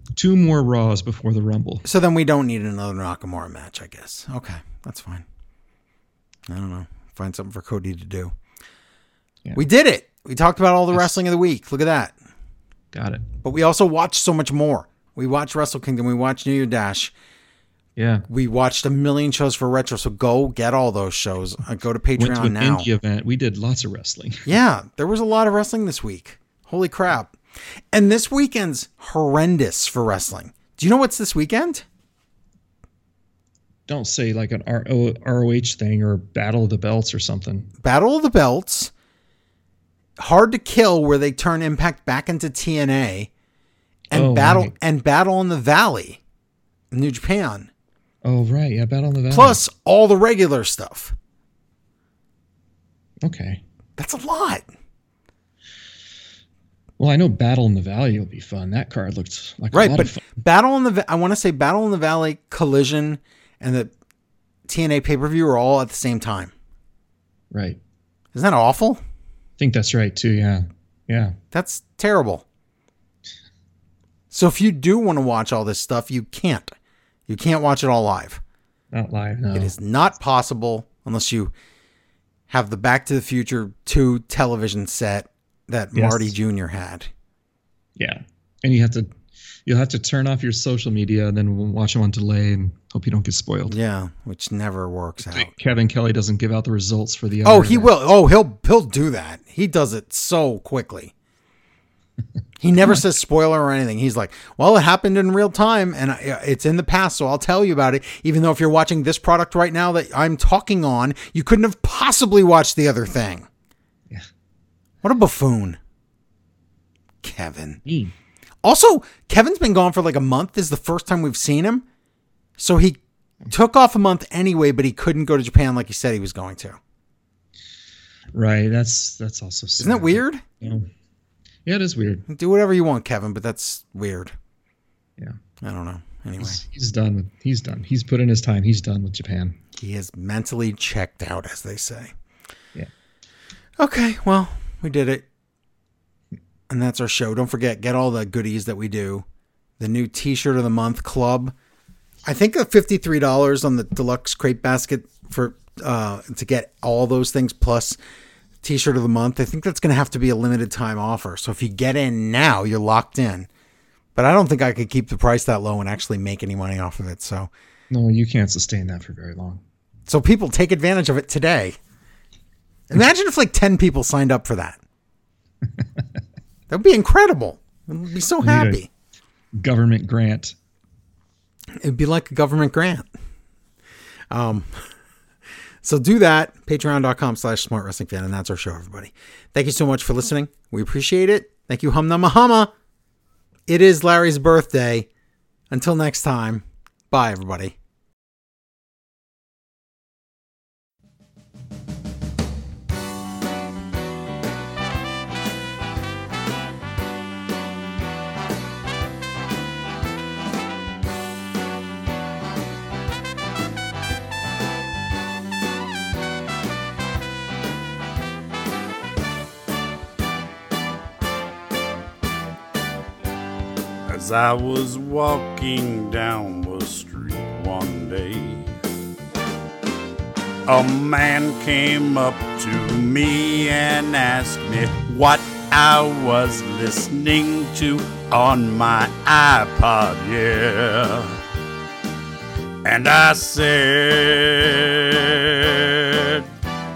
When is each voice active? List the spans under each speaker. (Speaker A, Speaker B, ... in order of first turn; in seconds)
Speaker A: 0.1-1.9, 12.9-13.2, 17.9-18.3, 22.2-24.5, 33.9-37.7, 44.1-44.7, 48.2-49.6, 53.2-53.6, 57.0-60.2, 67.5-67.8, 69.6-71.4, 78.9-79.7, 85.9-86.3, 88.0-89.1, 89.7-93.8, 95.2-97.9, 117.8-118.1, 128.3-130.9, 131.7-132.3, 136.4-139.6, 167.9-169.6, 175.7-176.1, 178.4-178.8, 179.6-180.6
Speaker B: 1.8-5.2, 6.5-8.3, 9.5-12.1, 13.4-17.1, 18.3-22.9, 24.4-27.4, 27.9-31.9, 37.8-38.9, 40.2-43.3, 44.1-46.2, 46.9-47.7, 49.3-51.1, 54.0-54.7, 59.7-63.9, 64.7-66.5, 68.3-69.0, 71.5-72.4, 74.3-76.7, 77.3-78.4, 79.5-81.5, 82.5-87.1, 93.7-95.5, 97.4-101.1, 102.6-113.5, 115.0-115.8, 117.2-117.8, 118.6-121.8, 122.6-126.8, 129.8-130.4, 132.3-134.3, 135.6-136.6, 139.7-142.1, 143.8-145.2, 146.7-149.2, 149.8-151.5, 152.2-158.0, 158.6-163.5, 164.1-167.5, 170.1-171.8, 172.9-174.8, 176.7-178.9, 181.8-183.1, 184.3-184.8, 185.8-192.7, 193.7-195.1, 195.7-197.8
Speaker C: 224.1-228.7, 230.7-241.4, 242.8-246.4